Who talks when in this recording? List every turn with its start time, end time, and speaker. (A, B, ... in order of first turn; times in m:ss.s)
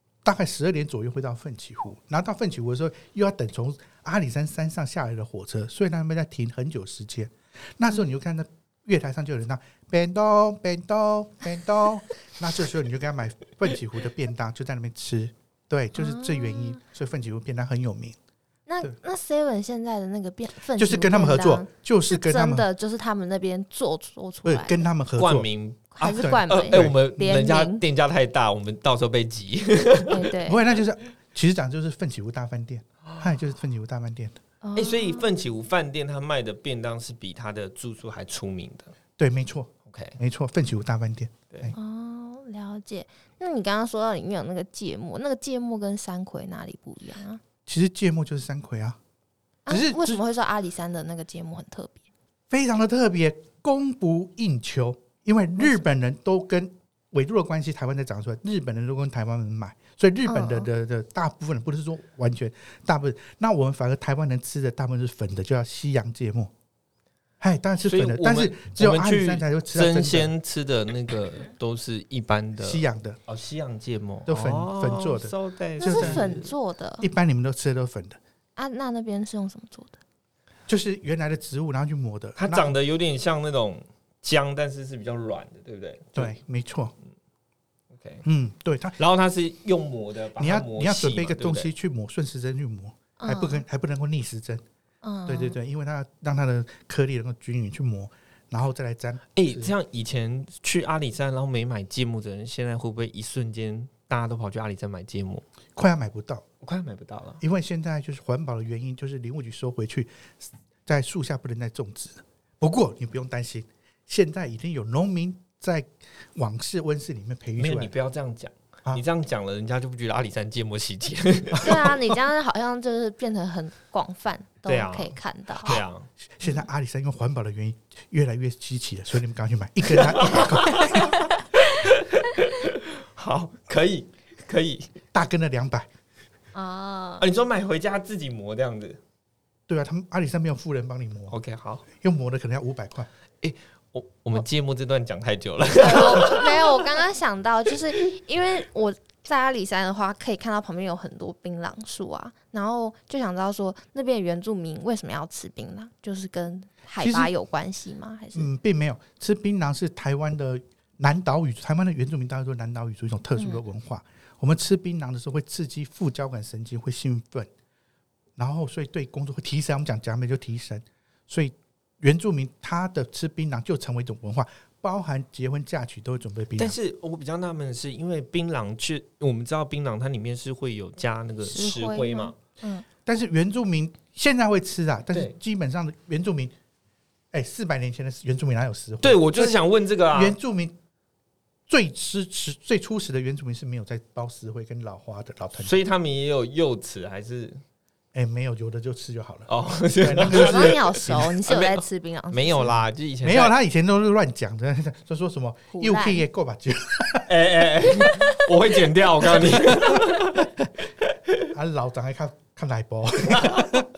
0:00.2-0:18.2 A
0:15.9-0:16.8 B
0:18.7-0:24.9 B
0:20.8-0:22.7 A
0:24.4-0:25.5 A
0:25.2-0:30.3 C
0:26.0-0:27.8 B
0:26.0-0:27.3 A
0:30.1-0:30.6 B
0:30.4-0:34.4 A
0:34.6-0:35.3 B
0:34.8-0:38.9 C
0:39.2-0:41.7 A
0:39.8-0:40.2 C
0:41.7-0:47.4 B
0:47.6-0:49.0 A
0:49.7-0:52.0 B
0:49.7-0:50.2 A
0:52.5-1:06.5 A
1:00.2-1:00.7 B
1:07.4-1:10.3 A
1:07.8-1:16.5 C
1:12.6-1:13.2 A
1:14.3-1:16.3 A
1:15.8-1:17.0 B
1:17.0-1:18.2 A
1:18.6-1:20.0 B
1:20.7-1:22.7 A
1:22.4-1:26.3 C
1:26.1-1:26.9 A
1:27.9-1:28.2 C
1:28.2-1:29.0 A
1:29.0-1:31.7 C
1:30.4-1:34.6 A
1:33.2-1:33.6 B
1:35.0-1:35.6 B
1:35.2-1:39.7 A
1:39.3-1:45.4 C
1:45.8-1:46.4 A
1:46.6-1:47.4 C
1:47.4-1:57.9 A
1:57.6-2:01.9 C
2:01.6-2:05.8 B
2:04.6-2:06.1 C
2:05.6-2:11.1 A
2:09.9-2:14.9 C
2:15.1-2:15.9 A
2:16.5-2:17.2 B
2:17.2-2:19.0 C
2:19.7-2:21.4 A
2:21.3-2:21.8 C
2:21.9-2:23.1 A
2:23.4-2:26.9 C
2:25.8-2:38.5 B
2:37.0-2:37.3 A
2:38.3-2:47.5 A
2:43.4-2:43.6 B
2:48.4-2:56.8 A
2:56.6-3:02.4 C
3:01.4-3:02.8 B
3:03.0-3:06.5 A
3:07.3-3:09.6 A
3:09.0-3:10.4 C
3:10.1-3:10.8 A
3:11.7-3:15.8 A
3:15.6-3:17.6 C
3:18.1-3:21.4 A
3:19.5-3:23.5 C
3:20.2-3:22.7 B
3:22.6-3:27.3 A
3:25.7-3:26.2 B
3:27.3-3:30.5 C
3:29.4-3:30.1 A
3:31.5-3:33.8 A
3:33.3-3:33.8 C